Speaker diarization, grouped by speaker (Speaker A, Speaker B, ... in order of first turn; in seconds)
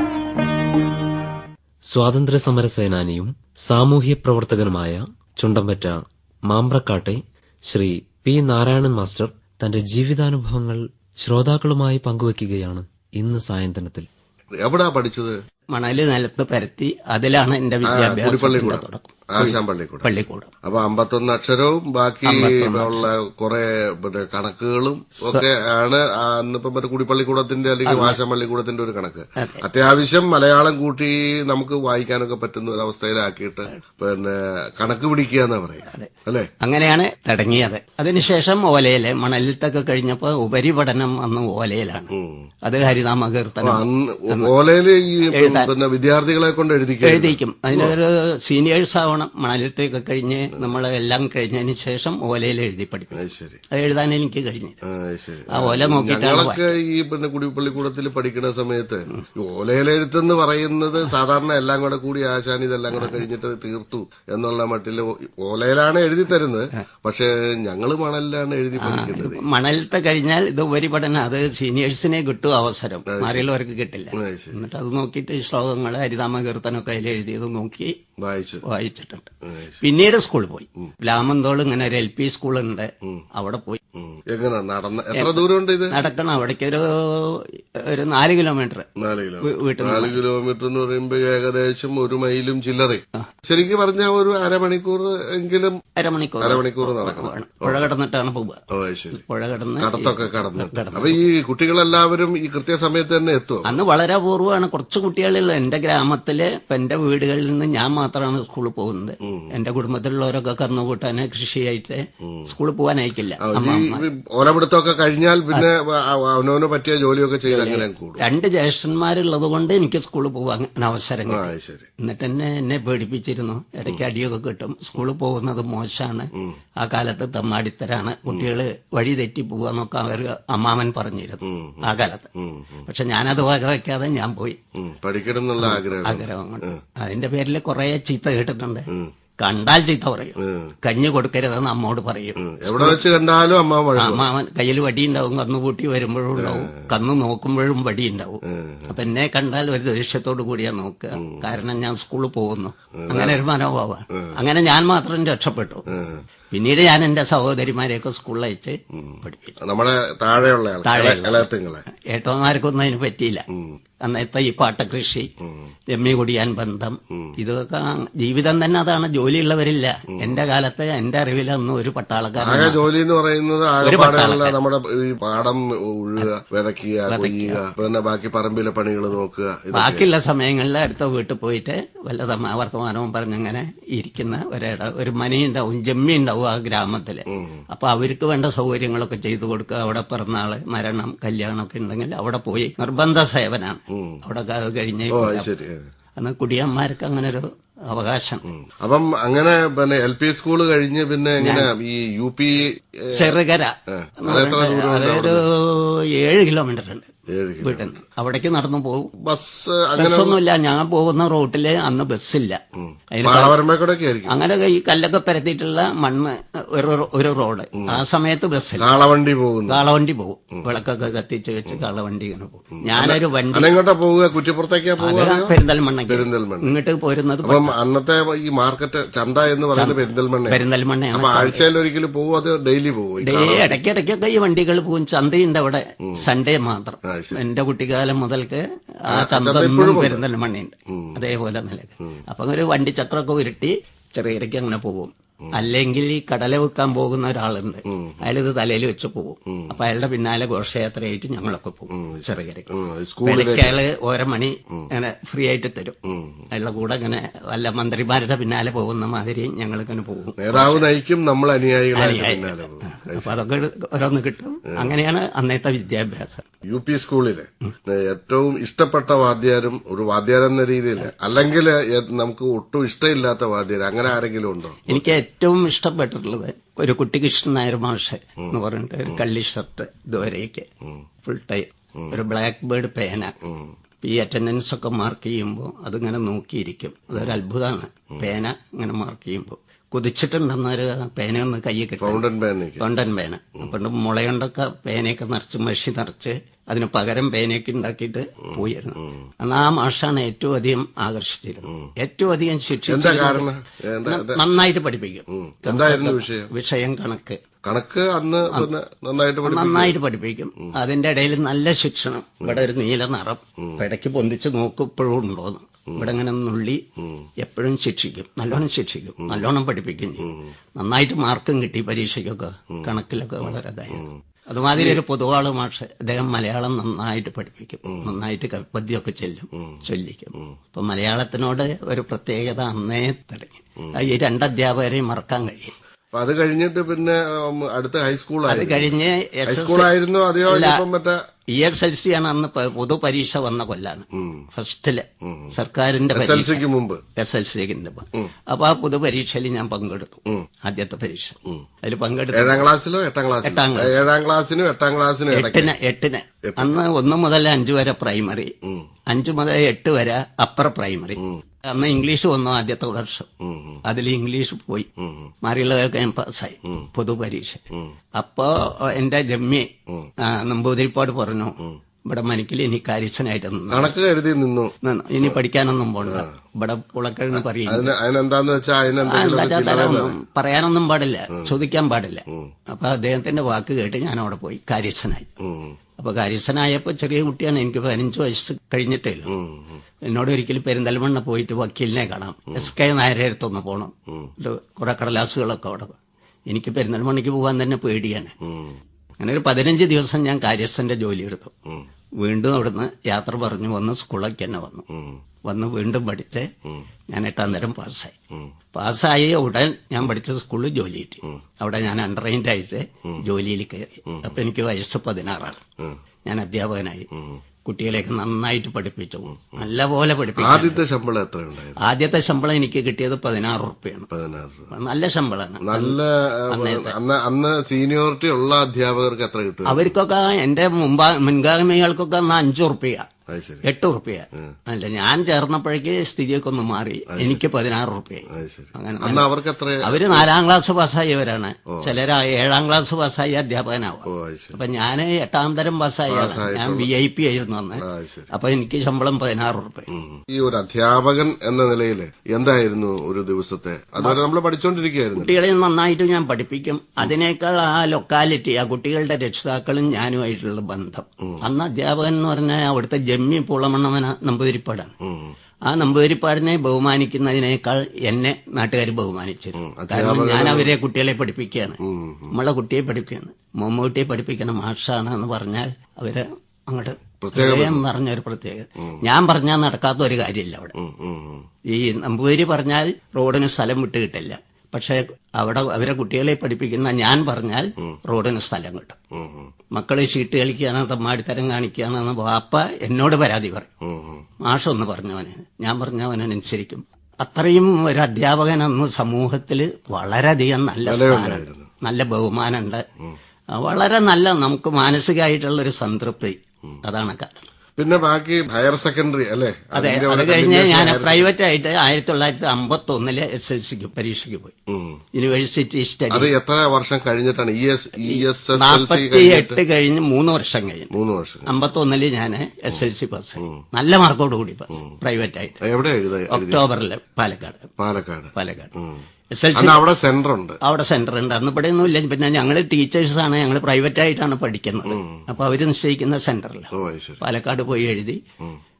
Speaker A: 1.9-14.1
Speaker B: 14.6-15.3, 17.9-20.1, 20.6-36.5, 42.1-42.4, 43.6-48.0, 53.1-53.6, 54.8-69.4, 73.1-73.5, 74.1-74.6, 78.2-78.6, 79.5-79.8, 84.0-86.0, 89.0-95.8, 96.4-97.8, 98.7-99.2, 99.8-103.8, 109.2-109.5, 113.4-118.2, 121.3-121.9, 131.4-131.8, 132.4-132.8, 134.8-136.8, 140.4-140.7, 142.4-144.3, 146.3-146.9, 148.5-148.9, 151.2-151.5, 153.0-153.4, 155.9-156.2, 158.9-161.8, 172.4-180.1, 193.9-194.2, 195.1-195.8, 198.6-203.4, 203.9-205.4, 207.3-207.9, 209.2-210.4, 212.8-214.3, 218.8-219.8, 222.9-225.6, 226.1-226.7, 227.4-233.8, 237.0-237.4, 239.1-240.2, 240.9-241.2, 247.9-248.2, 249.5-249.7, 251.9-253.8, 256.1-256.4, 260.4-263.4, 266.6-275.2, 283.4-283.7, 292.0-292.8, 302.9-304.4, 305.3-306.5, 307.6-309.9, 320.2-320.5, 323.4-324.2, 324.7-325.0, 336.1-341.2, 344.1-344.4, 345.2-345.5, 346.1-347.0, 352.3-355.7, 356.5-356.8, 363.4-363.8, 365.0-365.3, 373.7-375.4, 376.0-376.3, 377.3-380.2, 385.4-385.7, 389.3-389.8, 398.4-398.8, 404.9-405.2, 414.1-414.4, 417.1-417.4, 420.4-421.8, 424.1-424.7, 425.6-429.9, 433.3-433.6, 437.1-437.4, 438.3-440.3, 441.7-442.0, 444.1-444.6, 446.1-446.9, 447.8-448.3, 449.9-455.4, 465.0-465.3, 469.6-470.7, 471.8-472.3, 477.2-477.8, 480.8-481.4, 489.1-489.5, 493.8-494.2, 500.8-501.7, 507.8-511.3, 514.7-515.0, 516.1-519.6, 520.9-521.5, 525.6-526.7, 527.8-529.0, 529.5-530.6, 534.9-535.2, 536.7-537.2
Speaker C: 15.7-20.5, 22.2-23.1, 25.2-25.5, 27.9-28.2, 29.4-29.6, 35.9-42.1, 42.6-44.5, 45.3-45.7, 47.0-53.2, 53.7-54.8, 55.5-56.8, 62.9-63.2, 68.8-77.9, 78.6-79.3, 79.8-83.8, 85.1-88.8, 89.4-90.2, 96.0-98.6, 99.1-101.3, 103.6-114.0, 117.5-126.3, 126.8-132.3, 132.8-134.6, 135.6-138.9, 139.4-143.0, 143.9-155.9, 156.5-159.6, 160.8-163.4, 164.0-165.3, 165.9-172.8, 173.8-174.6, 177.1-177.6, 179.7-195.5, 196.2-198.4, 201.4-201.7, 203.1-207.1, 207.6-209.1, 209.9-212.6, 213.1-213.6, 214.3-218.9, 219.7-223.7, 225.0-227.7, 229.7-231.7, 233.2-252.7, 253.2-256.0, 256.5-260.9, 261.9-266.5, 274.9-280.7, 281.2-283.3, 284.0-292.2, 292.8-303.5, 304.0-307.4, 309.4-316.8, 317.4-335.7, 338.4-339.9, 340.4-340.8, 341.5-346.6, 347.1-352.7, 353.4-354.1, 355.3-358.5, 359.1-363.3, 363.8-364.9, 365.4-367.6, 368.1-373.9, 374.8-377.9, 379.0-385.3, 386.0-389.4, 390.0-396.0, 396.5-398.3, 399.2-401.5, 402.2-404.8, 405.4-406.5, 407.1-408.1, 408.7-415.6, 416.2-417.1, 417.6-420.8, 421.8-424.1, 424.7-426.0, 426.5-426.9, 429.6-433.1, 433.6-439.3, 439.8-449.9, 455.1-464.9, 465.7-471.8, 472.3-480.7, 481.7-489.0, 489.7-493.7, 494.4-502.8, 503.5-507.4, 509.7-514.5, 515.1-516.3, 518.0-520.9, 521.5-525.6, 526.3-527.7, 528.3-528.7, 529.3-529.8, 530.6-538.2